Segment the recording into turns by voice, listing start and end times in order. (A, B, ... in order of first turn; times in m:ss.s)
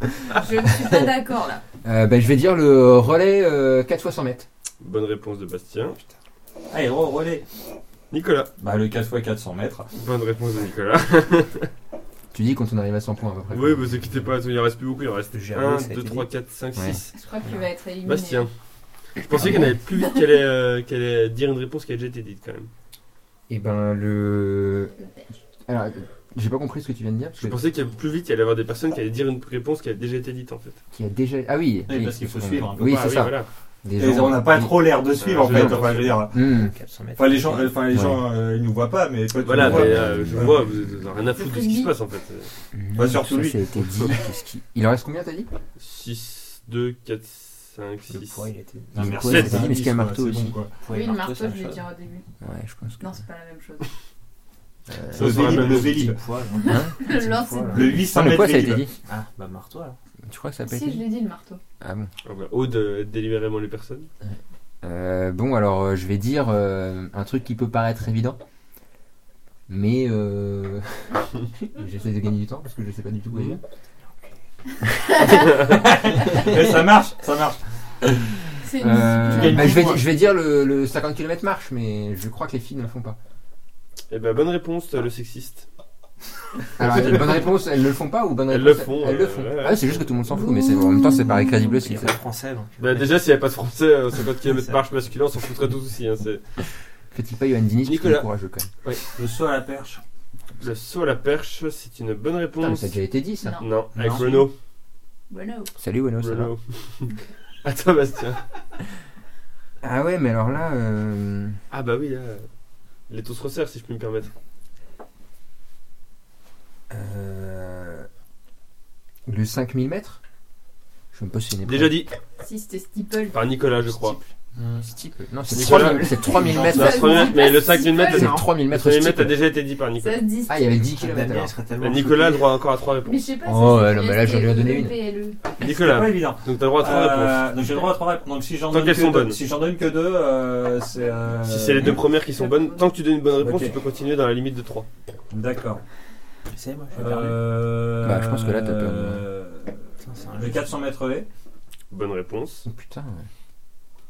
0:00.3-0:01.6 A
0:01.8-0:04.5 B
0:04.8-0:06.0 C
0:06.7-0:07.4 D
0:08.1-0:08.5 C
0:08.6-0:09.9 D
0:09.9-0:11.7 C
0:12.3-0:13.9 B
0:13.5-0:17.1 C
0:15.3-0:16.3 E
0:17.1-0:18.5 A
0:18.0-0:18.5 C
0:19.2-0:22.7 C
0:19.3-0:19.8 B
0:20.0-0:20.2 A
0:23.5-0:24.9 B
0:25.7-0:27.6 B
0:27.4-0:30.8 C
0:30.9-0:36.7 B
0:31.9-0:33.2 D
0:32.8-0:33.5 C
0:34.0-0:36.5 D
0:35.2-0:36.2 C
0:36.3-0:37.7 E
0:37.2-0:40.6 D
0:37.9-0:38.2 B
0:39.4-0:42.5 C
0:39.5-0:40.6 B
0:41.4-0:41.9 A
0:42.7-0:45.5 B
0:42.9-0:44.1 D
0:45.8-0:48.4 C
0:48.1-0:49.2 E
0:48.9-0:50.7 D
0:49.0-0:50.6 B
0:49.2-0:49.7 C
0:50.8-0:51.9 E
0:50.9-0:52.2 A
0:52.4-0:53.1 B
0:53.0-0:53.9 A
0:54.9-0:55.9 B
0:55.1-0:56.0 C
0:55.1-0:56.2 D
0:55.5-0:58.0 E
0:56.6-0:58.0 A
0:56.6-0:56.9 B
0:57.7-0:58.9 D
0:58.0-0:58.9 B
0:59.0-1:00.0 E
1:00.2-1:01.0 B
1:00.7-1:01.6 A
1:01.8-1:02.1 B
1:02.2-1:04.1 C
1:04.8-1:08.4 B
1:09.7-1:13.6 B
1:15.6-1:17.6 D
1:18.6-1:20.0 A
1:18.8-1:23.2 B
1:19.3-1:20.0 D
1:24.1-1:25.7 C
1:26.8-1:32.2 B
1:26.8-1:27.5 C
1:28.5-1:30.1 C
1:30.4-1:31.7 A
1:31.6-1:33.0 E
1:32.8-1:36.6 C
1:34.5-1:34.8 E
1:37.1-1:38.7 B
1:37.8-1:38.3 C
1:39.2-1:40.0 D
1:40.6-1:43.0 C
1:42.6-1:43.6 B
1:43.4-1:43.7 A
1:43.6-1:44.5 C
1:43.9-1:44.4 D
1:45.3-1:45.7 A
1:45.8-1:46.5 B
1:46.2-1:48.4 C
1:49.8-1:51.6 B
1:51.7-1:52.4 C
1:53.1-1:54.3 C
1:56.9-1:58.1 B
1:59.3-2:00.2 B
2:01.1-2:02.0 B
2:01.6-2:02.1 C
2:02.4-2:03.4 A
2:03.3-2:04.2 C
2:04.6-2:07.3 B
2:05.5-2:10.2 C
2:06.2-2:08.4 A
2:06.4-2:07.0 D
2:08.0-2:09.4 B
2:10.0-2:10.6 A
2:10.5-2:11.5 B
2:11.0-2:12.5 E
2:11.8-2:13.2 C
2:13.0-2:15.4 A
2:13.4-2:15.0 B
2:15.6-2:17.5 C
2:15.6-2:22.1 D
2:18.7-2:19.4 C
2:21.4-2:24.9 C
2:22.1-2:22.8 A
2:23.4-2:23.8 D
2:25.3-2:25.8 D
2:26.5-2:27.4 E
2:26.9-2:31.3 D
2:28.0-2:29.2 B
2:30.0-2:30.7 E
2:31.9-2:32.6 C
2:32.6-2:33.3 B